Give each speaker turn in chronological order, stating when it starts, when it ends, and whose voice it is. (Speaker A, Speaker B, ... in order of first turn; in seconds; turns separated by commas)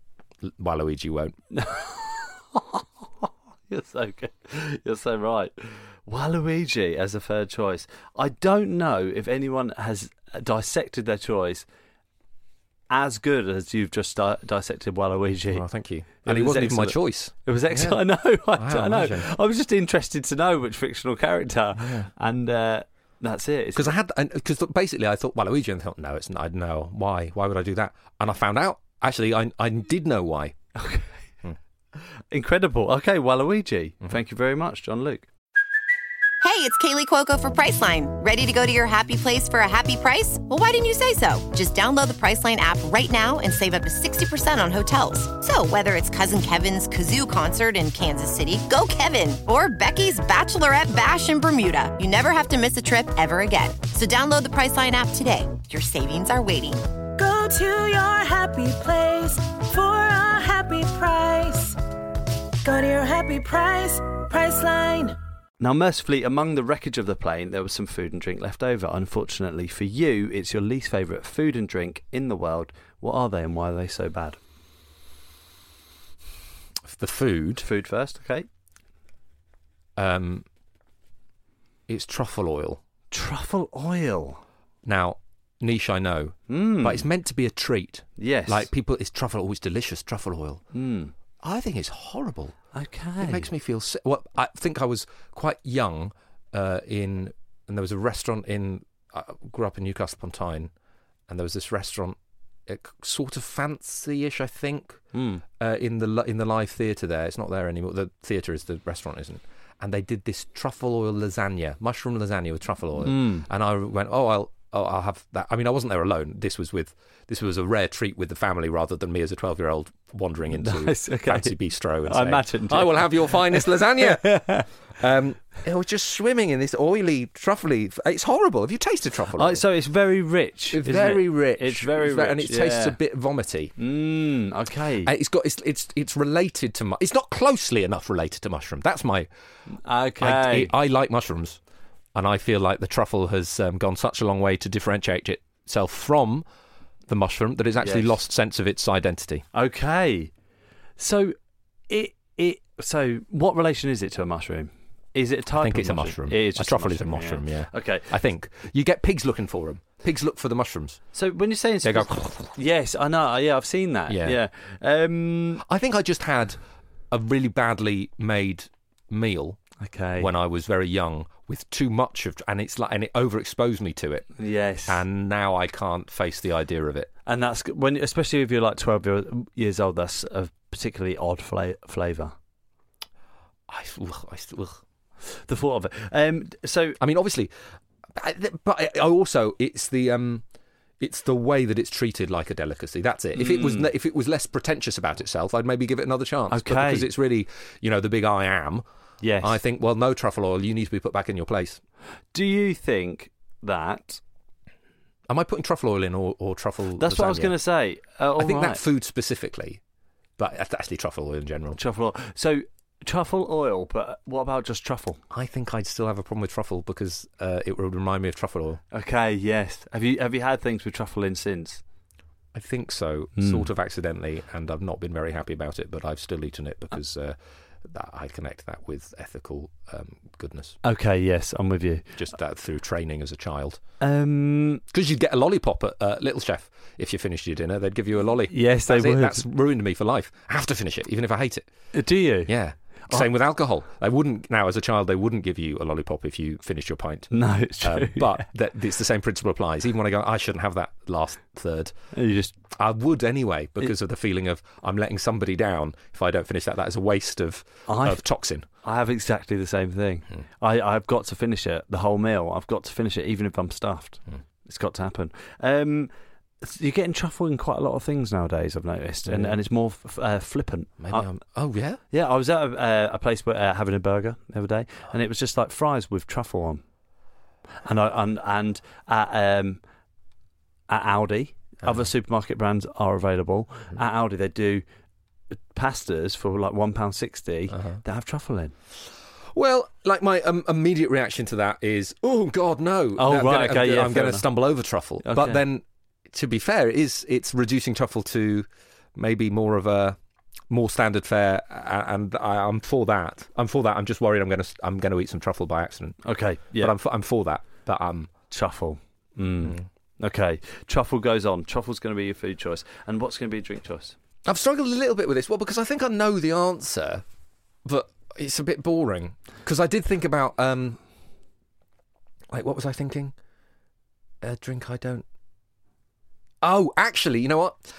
Speaker A: 0.4-1.4, Speaker B: 1.5-11.6, Speaker B: 12.9-15.7, Speaker A: 15.5-18.0, Speaker B: 16.2-23.9, Speaker A: 18.5-19.3, Speaker A: 21.8-22.1, Speaker A: 23.7-30.6, Speaker B: 30.8-31.1, Speaker B: 32.3-35.3, Speaker C: 36.4-56.8, Speaker D: 57.1-61.8, Speaker D: 62.6-65.2, Speaker B: 65.6-74.4, Speaker A: 76.9-77.6, Speaker B: 77.6-78.5, Speaker A: 80.0-80.5, Speaker A: 81.9-82.8, Speaker B: 83.1-84.4, Speaker A: 84.8-90.6, Speaker B: 86.5-87.1, Speaker B: 88.2-88.7, Speaker B: 90.7-91.1, Speaker A: 91.4-92.5, Speaker B: 92.7-93.5, Speaker A: 93.2-100.7, Speaker A: 101.3-105.0, Speaker B: 105.1-105.4, Speaker A: 105.6-124.4, Speaker B: 113.0-113.5, Speaker B: 120.5-124.7, Speaker A: 125.0-129.6, Speaker B: 129.3-133.0, Speaker A: 130.7-133.7, Speaker B: 133.8-135.1, Speaker A: 135.0-139.3, Speaker B: 139.8-140.7, Speaker A: 140.2-141.6, Speaker A: 142.1-146.4, Speaker A: 147.1-149.4, Speaker B: 147.8-148.2, Speaker B: 149.5-150.3, Speaker B: 151.0-151.3, Speaker B: 151.9-158.1, Speaker A: 155.6-161.0, Speaker B: 161.1-165.6, Speaker A: 161.8-162.5, Speaker A: 164.1-164.4, Speaker A: 165.6-166.6, Speaker A: 167.1-169.6, Speaker B: 169.8-170.3, Speaker A: 170.2-174.3, Speaker B: 174.4-175.0, Speaker A: 174.9-177.1, Speaker B: 177.2-182.3, Speaker A: 183.7-184.8, Speaker B: 185.3-187.0, Speaker A: 187.0-187.5, Speaker A: 188.1-190.4, Speaker A: 191.0-198.8, Speaker B: 193.3-193.9, Speaker B: 196.5-197.1, Speaker B: 199.2-199.6, Speaker A: 199.4-201.8, Speaker B: 202.3-204.2, Speaker A: 205.3-207.5, Speaker B: 207.0-208.8, Speaker A: 208.4-209.8, Speaker A: 210.4-211.8, Speaker B: 211.8-215.2, Speaker A: 215.3-218.8, Speaker B: 218.9-221.8, Speaker A: 222.5-230.8, Speaker B: 223.4-223.7, Speaker B: 230.8-232.2, Speaker A: 232.2-233.8, Speaker B: 234.0-234.8, Speaker A: 234.9-241.7, Speaker B: 238.5-239.4, Speaker B: 241.9-242.5, Speaker A: 242.4-247.3, Speaker B: 247.3-248.4, Speaker A: 247.8-251.9, Speaker B: 252.1-252.6, Speaker A: 252.7-258.6, Speaker B: 257.9-258.2, Speaker B: 258.8-266.1, Speaker B: 266.6-271.3, Speaker A: 269.2-269.6, Speaker A: 271.0-272.0, Speaker B: 272.1-276.8, Speaker B: 277.8-279.8, Speaker B: 280.9-284.8, Speaker B: 285.5-288.7, Speaker A: 289.5-300.2, Speaker B: 293.2-294.5, Speaker B: 295.2-295.6, Speaker A: 300.7-306.2, Speaker B: 306.2-306.9, Speaker A: 306.8-308.3, Speaker B: 308.5-314.1, Speaker A: 314.4-317.2, Speaker A: 317.8-321.0, Speaker A: 322.5-323.3, Speaker A: 324.4-325.2, Speaker A: 326.6-327.8